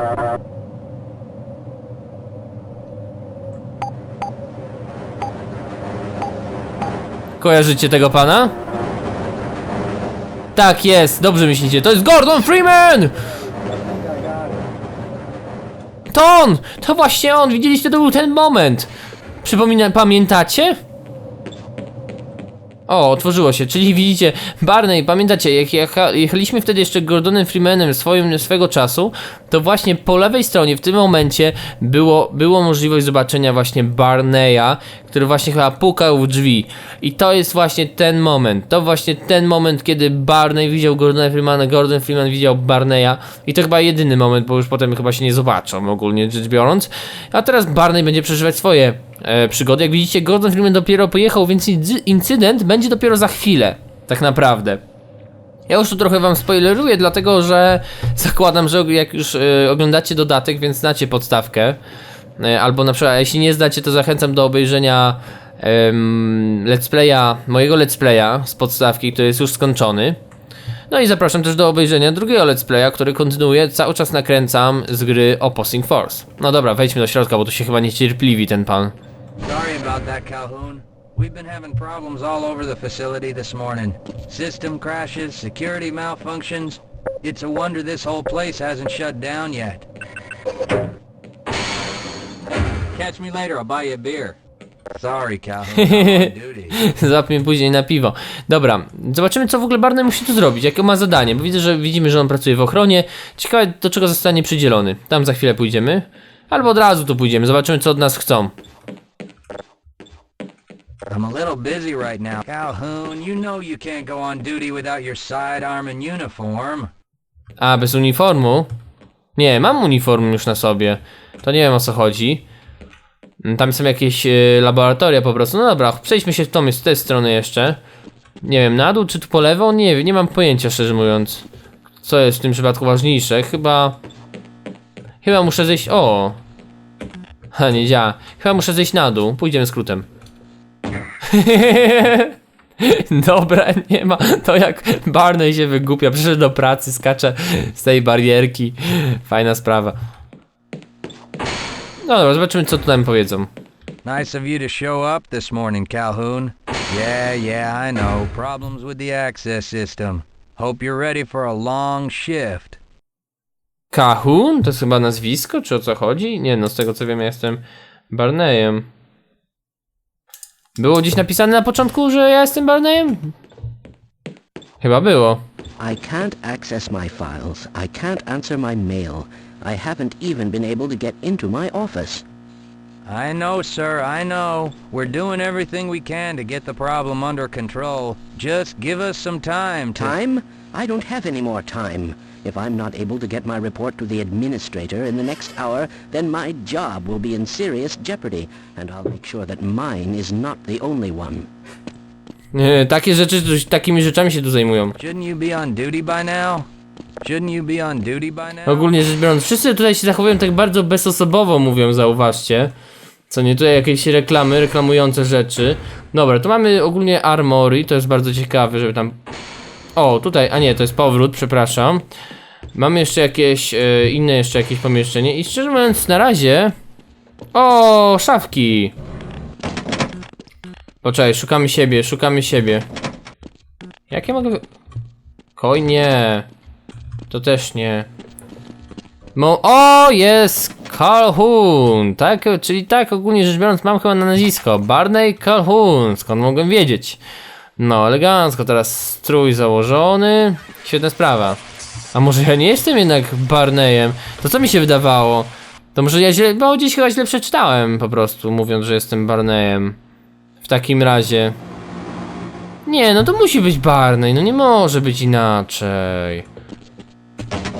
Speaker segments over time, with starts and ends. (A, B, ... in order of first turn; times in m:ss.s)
0:07.4-0:08.6 A
0:10.6-0:13.2 A
0:13.4-0:14.7 B
0:16.1-0:18.9 A
0:19.4-0:20.8 A
0:22.9-0:54.8 A
0:55.7-1:01.8 A
1:02.4-1:10.2 A
1:10.9-1:18.9 A
1:19.4-1:29.9 B
1:32.9-1:34.4 B
1:35.0-1:36.8 B
1:35.8-1:48.5 A
1:51.1-1:56.9 B
1:57.6-1:58.7 A
1:59.4-2:02.4 A
2:03.4-2:07.8 A
2:08.4-2:11.4 A
2:12.0-2:14.0 A
2:15.2-2:16.4 A
2:17.5-2:20.1 A
2:21.3-2:30.0 A
2:32.0-2:33.5 A
2:34.0-2:42.8 B
2:43.9-2:48.9 A
2:50.8-2:53.3 A
2:54.8-2:55.4 A
2:55.8-3:02.2 C
3:03.1-3:10.1 B
3:10.0-3:21.5 C
3:22.5-3:25.0 A
3:25.0-3:26.7 B
3:27.2-3:28.9 B
3:28.7-3:32.7 A
3:33.3-3:39.2 A
3:40.0-3:42.0 A
3:42.8-3:46.7 A
3:47.5-3:48.9 A
3:51.0-3:52.8 A
3:54.1-3:54.6 A
3:55.6-3:56.5 A
3:57.3-3:58.1 A
3:59.4-4:07.2 A
4:07.8-4:11.6 A
4:12.1-4:20.0 A
4:20.6-4:21.6 A
4:22.9-4:26.4 A